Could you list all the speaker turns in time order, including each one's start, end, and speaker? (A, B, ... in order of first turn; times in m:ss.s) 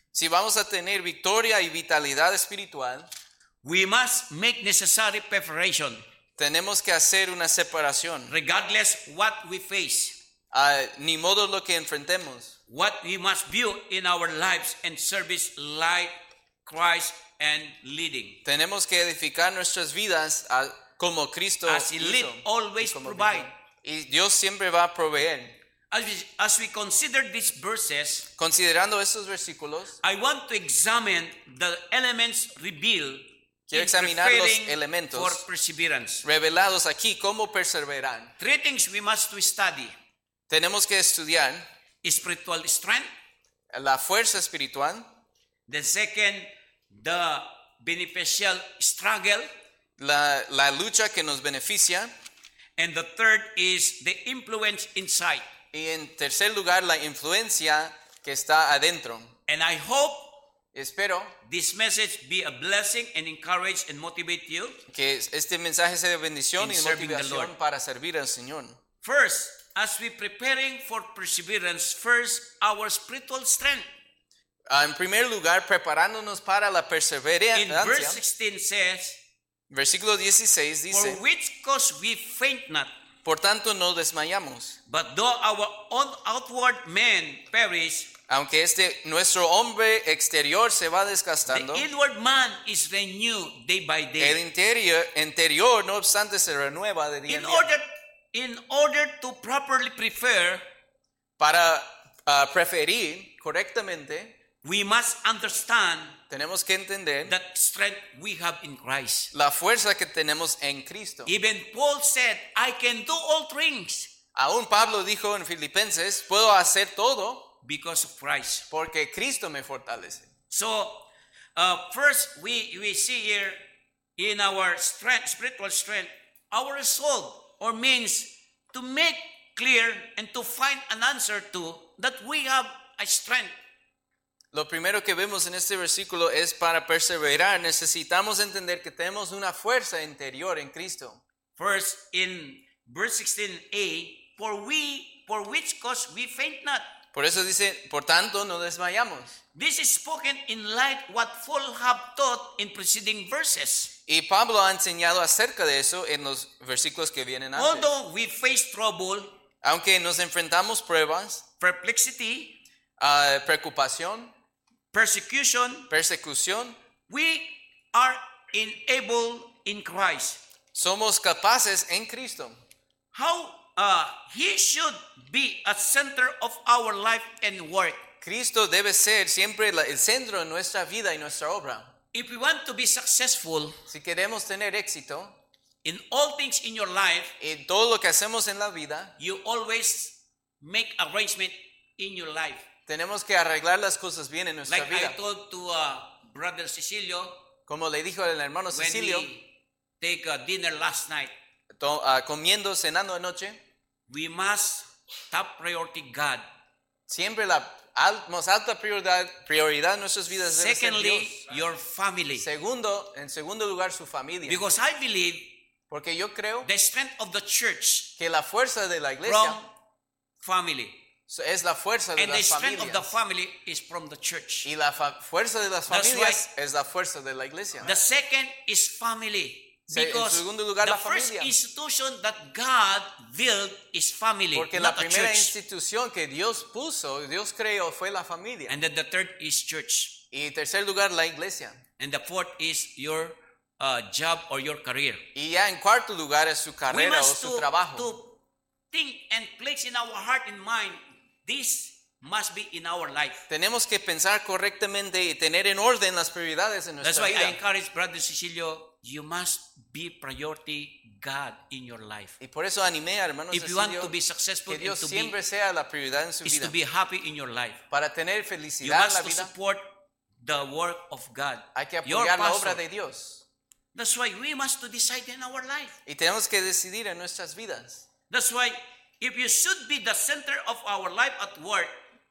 0:00.1-0:03.1 A
0:03.6-0:06.0 B
0:06.4-0:08.3 A
0:08.3-0:10.2 B
0:10.5-0:12.6 A
0:12.7-0:18.4 B
0:18.4-0:25.6 A
0:21.7-0:23.5 B
0:25.9-0:28.3 B
0:28.4-0:30.0 A
0:30.0-0:36.2 B
0:33.7-0:35.4 A
0:36.2-0:38.3 A
0:38.4-0:39.9 B
0:40.5-0:41.6 A
0:42.0-0:43.1 B
0:43.7-0:45.1 A
0:45.7-0:49.5 B
0:50.0-0:52.1 A
0:52.8-0:55.5 B
0:55.7-0:59.3 A
0:59.5-1:00.4 B
1:00.7-1:01.3 A
1:01.4-1:04.8 B
1:04.9-1:08.8 A
1:06.6-1:07.5 B
1:09.0-1:13.9 B
1:14.7-1:18.2 A
1:17.5-1:19.2 B
1:19.7-1:21.2 A
1:20.9-1:22.9 B
1:23.2-1:24.8 A
1:24.9-1:28.1 B
1:28.3-1:31.9 A
1:31.5-1:34.4 B
1:34.2-1:37.7 A
1:37.3-1:40.6 B
1:41.4-1:44.3 A
1:44.6-1:46.2 B
1:46.3-1:47.4 A
1:47.2-1:49.3 B
1:49.3-1:51.3 A
1:51.2-1:54.1 B
1:54.4-1:57.5 A
1:57.6-1:58.7 B
1:58.7-2:00.3 A
2:00.5-2:03.6 B
2:04.2-2:13.5 B
2:14.5-2:21.2 A
2:21.6-2:26.9 B
2:27.1-2:29.4 A
2:29.6-2:33.9 B
2:34.1-2:37.9 A
2:37.6-2:39.4 B
2:39.6-2:41.4 A
2:41.6-2:42.6 B
2:43.0-2:44.3 A
2:44.9-2:45.9 B
2:45.9-2:46.8 A
2:47.1-2:50.4 B
2:50.7-2:52.6 A
2:53.1-2:58.0 B
2:58.2-3:01.9 A
3:02.1-3:03.8 B
3:03.9-3:05.4 A
3:05.8-3:07.4 B
3:07.4-3:09.2 A
3:09.2-3:12.6 B
3:12.9-3:15.2 A
3:14.7-3:17.4 B
3:17.7-3:19.3 A
3:18.7-3:19.5 B
3:20.0-3:21.3 B
3:21.8-3:23.6 A
3:24.1-3:26.4 B
3:27.1-3:31.4 A
3:30.4-3:32.5 B
3:32.4-3:34.6 A
3:34.5-3:35.6 B
3:35.9-3:36.7 A
3:36.6-3:38.1 B
3:38.2-3:39.6 A
3:39.2-3:39.7 B
3:40.4-3:41.0 B
3:41.3-3:43.2 A
3:42.2-3:44.7 B
3:44.6-3:47.9 A
3:45.9-3:46.5 B
3:47.8-3:55.5 B
3:49.9-3:51.5 A
3:54.5-3:58.8 A
3:58.7-4:00.2 B
4:00.3-4:01.8 A
4:02.0-4:05.2 B
4:05.4-4:08.1 A
4:06.9-4:08.4 B
4:08.9-4:13.5 B
4:13.5-4:17.6 A
4:17.0-4:22.4 B
4:22.4-4:24.1 A
4:23.5-4:25.3 B
4:24.7-4:26.8 A
4:26.4-4:27.8 B
4:27.9-4:29.5 A
4:28.8-4:32.8 B
4:31.8-4:33.4 A
4:34.0-4:36.0 B
4:36.1-4:38.1 A
4:38.3-4:42.0 B